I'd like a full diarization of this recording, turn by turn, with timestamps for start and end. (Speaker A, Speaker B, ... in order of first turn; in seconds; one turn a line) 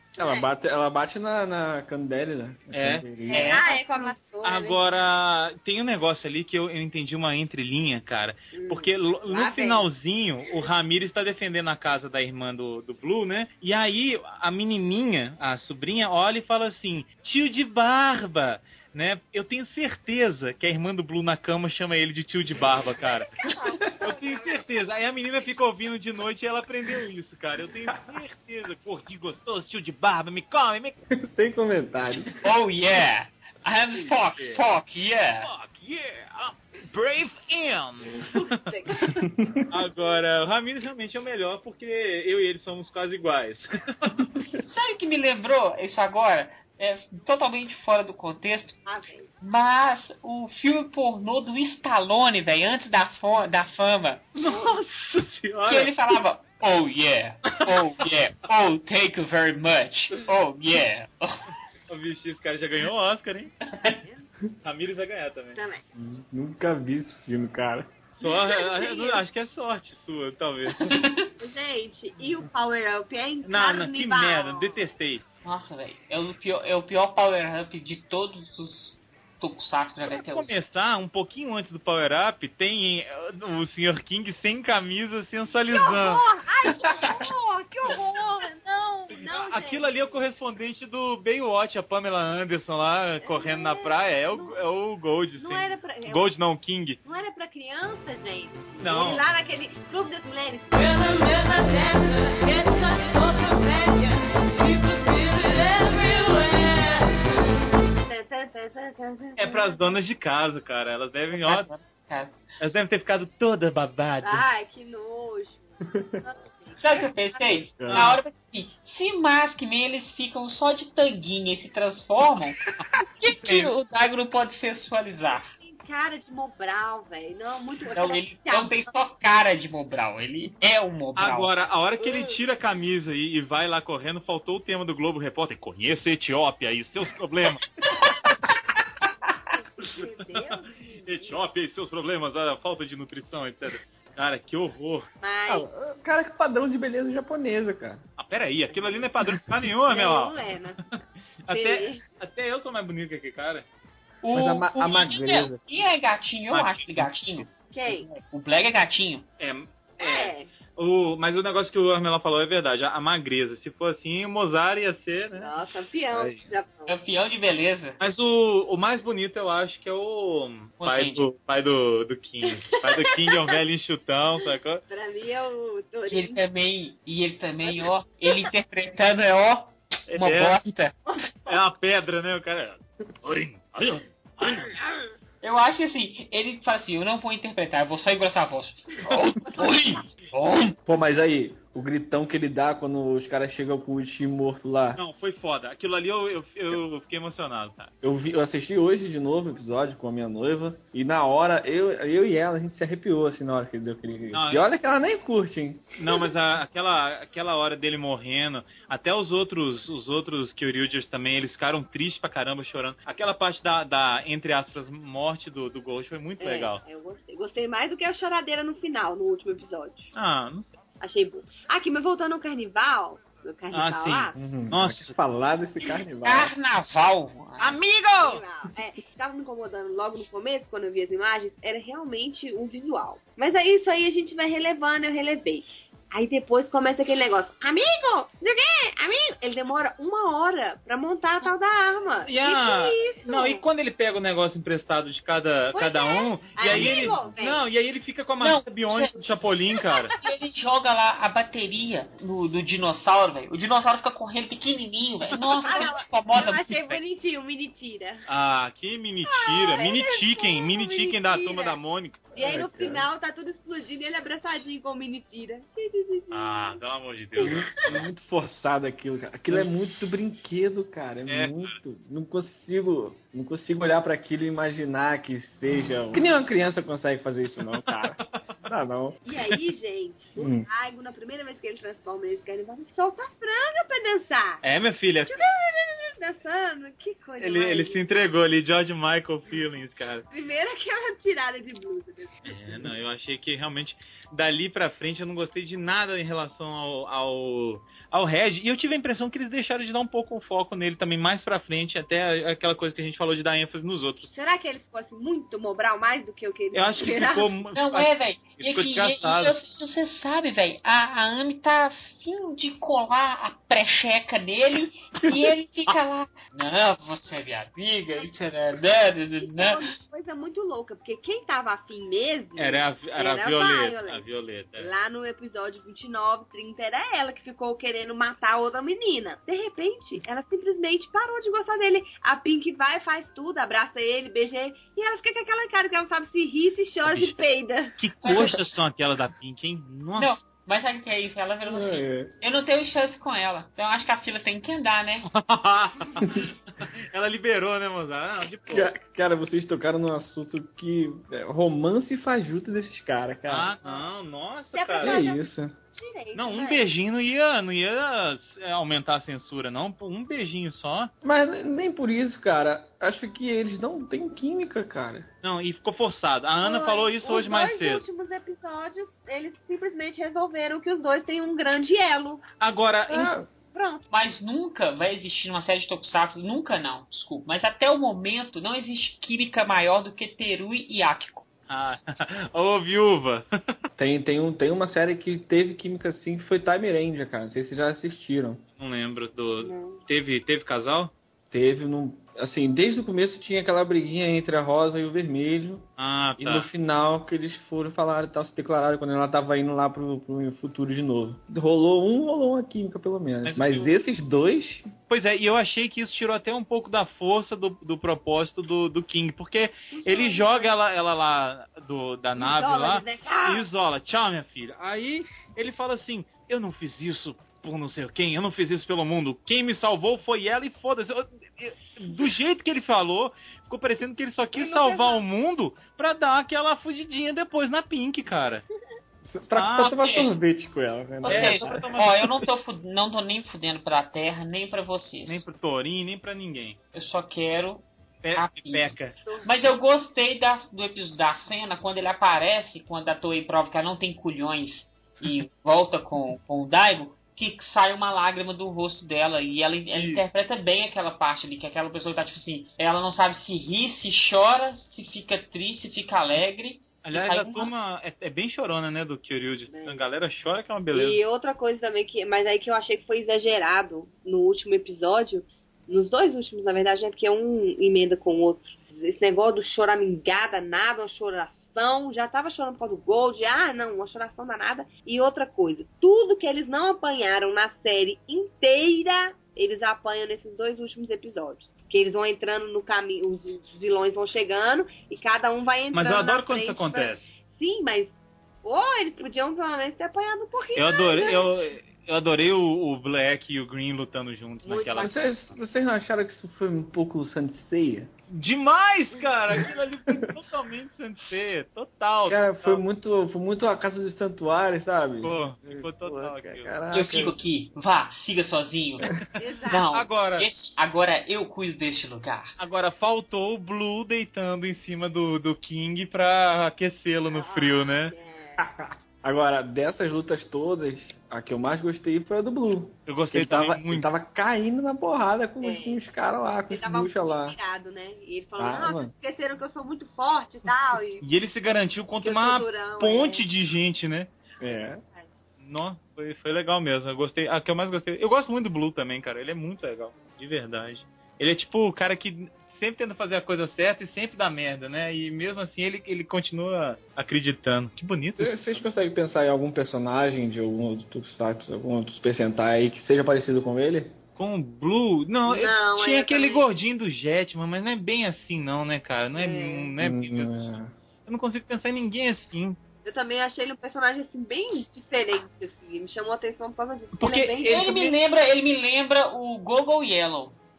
Speaker A: 0.1-3.6
Speaker B: 0.2-0.5
Speaker C: 2.7-3.6
Speaker B: 3.3-4.8
Speaker D: 3.3-4.1
Speaker C: 4.4-23.3
Speaker B: 8.5-9.9
Speaker B: 23.5-24.8
Speaker A: 23.6-24.0
Speaker C: 24.0-30.9
Speaker A: 31.1-32.5
Speaker D: 32.4-35.5
Speaker C: 33.9-34.6
Speaker C: 35.4-38.2
Speaker B: 38.2-39.1
Speaker A: 38.9-39.7
Speaker C: 39.7-44.1
Speaker A: 44.4-44.6
Speaker D: 44.7-48.9
Speaker B: 48.9-49.3
Speaker D: 49.4-54.3
Speaker C: 54.4-56.0
Speaker B: 54.5-54.9
Speaker D: 55.7-61.4
Speaker C: 57.5-58.1
Speaker C: 61.9-63.5
Speaker D: 63.7-64.0
Speaker B: 63.8-64.3
Speaker C: 64.6-65.6
Speaker B: 65.5-65.8
Speaker A: 65.9-67.9
Speaker C: 68.2-70.9
Speaker B: 68.2-69.2
Speaker D: 70.8-71.3
Speaker B: 71.4-74.8
Speaker C: 73.4-75.2
Speaker D: 75.4-80.5
Speaker C: 80.1-86.2
Speaker B: 85.7-90.4
Speaker A: 86.8-87.2
Speaker C: 89.1-97.0
Speaker B: 93.2-94.6
Speaker B: 95.4-96.3
Speaker B: 97.0-107.2
Speaker C: 98.8-99.2
Speaker B: 107.9-109.8
Speaker C: 109.4-111.7
Speaker D: 111.3-112.4
Speaker C: 112.6-114.4
Speaker B: 114.2-117.6
Speaker A: 115.9-116.2
Speaker D: 116.8-122.6
Speaker A: 117.8-118.2
Speaker C: 117.8-118.2
Speaker D: 123.2-125.5
Speaker C: 123.2-123.7
Speaker B: 125.6-128.9
Speaker D: 127.9-131.6
Speaker C: 131.2-137.6
Speaker B: 132.0-132.4
Speaker B: 139.5-141.4
Speaker C: 140.0-145.1
Speaker B: 145.2-145.7
Speaker A: 145.5-148.0
Speaker C: 148.2-150.3
Speaker B: 149.8-150.8
Speaker C: 151.4-153.7
Speaker B: 151.5-152.0
Speaker D: 154.2-159.3
Speaker A: 154.3-155.6
Speaker C: 156.5-157.4
Speaker B: 157.7-158.1
Speaker C: 159.4-165.5
Speaker B: 160.0-160.5
Speaker B: 165.3-166.9
Speaker D: 166.9-168.0
Speaker C: 168.0-174.8
Speaker D: 170.8-171.2
Speaker B: 172.4-173.6
Speaker B: 174.4-176.4
Speaker D: 176.1-181.0
Speaker C: 180.1-180.6
Speaker B: 181.1-181.5
Speaker C: 181.4-184.8
Speaker D: 185.4-190.8
Speaker A: 190.8-195.0
Speaker C: 194.9-197.9
Speaker A: 198.0-206.3
Speaker C: 204.3-204.7
Speaker C: 206.0-216.8
Speaker B: 216.4-220.1
Speaker C: 220.1-220.8
Speaker B: 221.0-224.3
Speaker C: 223.7-225.1
Speaker A: 224.3-226.5
Speaker D: 226.2-227.8
Speaker C: 227.6-228.4
Speaker B: 228.2-243.6
Speaker C: 242.2-250.1
Speaker B: 245.7-247.6
Speaker D: 246.6-247.1
Speaker D: 248.4-249.2
Speaker B: 249.7-250.3
Speaker D: 250.2-257.0
Speaker B: 255.5-258.2
Speaker C: 258.3-262.3
Speaker B: 259.2-261.8
Speaker A: 262.3-263.1
Speaker B: 262.3-266.8
Speaker C: 266.3-268.0
Speaker B: 267.4-267.9
Speaker A: 267.4-279.2
Speaker C: 271.3-271.7
Speaker C: 277.7-278.6
Speaker B: 279.2-284.6
Speaker A: 280.4-280.7
Speaker C: 284.6-285.5
Speaker B: 285.2-288.0
Speaker C: 287.4-290.2
Speaker B: 290.3-292.8
Speaker C: 292.4-304.3
Speaker B: 304.3-307.5
Speaker C: 306.7-309.6
Speaker D: 307.7-319.9
Speaker B: 319.4-324.2
Speaker C: 322.6-324.9
Speaker B: 324.8-338.0
Speaker C: 337.0-337.4
Speaker C: 338.0-340.4
Speaker D: 338.2-338.5
Speaker A: 338.3-338.6
Speaker D: 340.2-345.3
Speaker A: 341.6-342.3
Speaker C: 345.2-348.9
Speaker A: 346.2-346.5
Speaker A: 348.7-353.7
Speaker C: 353.5-355.2
Speaker B: 354.7-356.9
Speaker A: 355.0-355.8
Speaker C: 356.3-361.1
Speaker A: 361.2-365.3
Speaker C: 365.4-368.0
Speaker B: 366.6-372.4
Speaker C: 372.6-373.3
Speaker A: 373.1-373.5
Speaker B: 373.6-374.0
Speaker D: 374.1-381.5
Speaker C: 381.7-383.5
Speaker A: 384.0-388.6
Speaker C: 388.8-391.1
Speaker B: 389.6-390.0
Speaker A: 391.5-395.9
Speaker C: 396.0-396.7
Speaker A: 396.4-404.9
Speaker C: 403.4-403.9
Speaker C: 405.1-428.6
Speaker B: 409.9-410.7
Speaker B: 412.4-413.7
Speaker B: 424.5-425.2
Speaker A: 429.3-431.9
Speaker C: 429.5-430.1
Speaker D: 429.8-430.3
Speaker C: 431.2-432.2
Speaker D: 431.2-435.4
Speaker C: 435.2-436.8
Speaker D: 436.9-438.9
Speaker C: 438.2-439.1
Speaker D: 439.4-457.7
Speaker C: 449.9-450.2
Speaker C: 457.0-461.2
Speaker B: 459.7-460.0
Speaker B: 460.9-491.5
Speaker C: 485.9-487.3
Speaker C: 490.7-495.1
Speaker B: 494.6-495.2
Speaker A: 495.0-498.1
Speaker C: 498.3-502.8
Speaker B: 499.1-499.7
Speaker A: 499.5-500.3
Speaker A: 502.3-507.4
Speaker C: 505.2-506.8
Speaker D: 506.9-509.1
Speaker B: 509.4-509.9
Speaker D: 509.7-512.5
Speaker C: 509.9-510.5
Speaker C: 512.6-518.1
Speaker B: 517.3-518.6
Speaker A: 518.6-527.5
Speaker C: 523.1-524.1
Speaker B: 525.6-526.0
Speaker B: 526.7-531.2
Speaker A: 528.6-529.1
Speaker C: 531.2-534.3
Speaker B: 532.2-533.4
Speaker A: 534.6-535.0
Speaker B: 534.6-535.3
Speaker C: 535.6-548.9
Speaker A: 548.4-554.1
Speaker C: 554.4-560.7
Speaker B: 555.5-556.6
Speaker B: 559.3-559.9
Speaker A: 560.0-560.9
Speaker C: 561.2-562.8
Speaker B: 563.0-567.8
Speaker C: 567.2-568.1
Speaker D: 567.6-570.6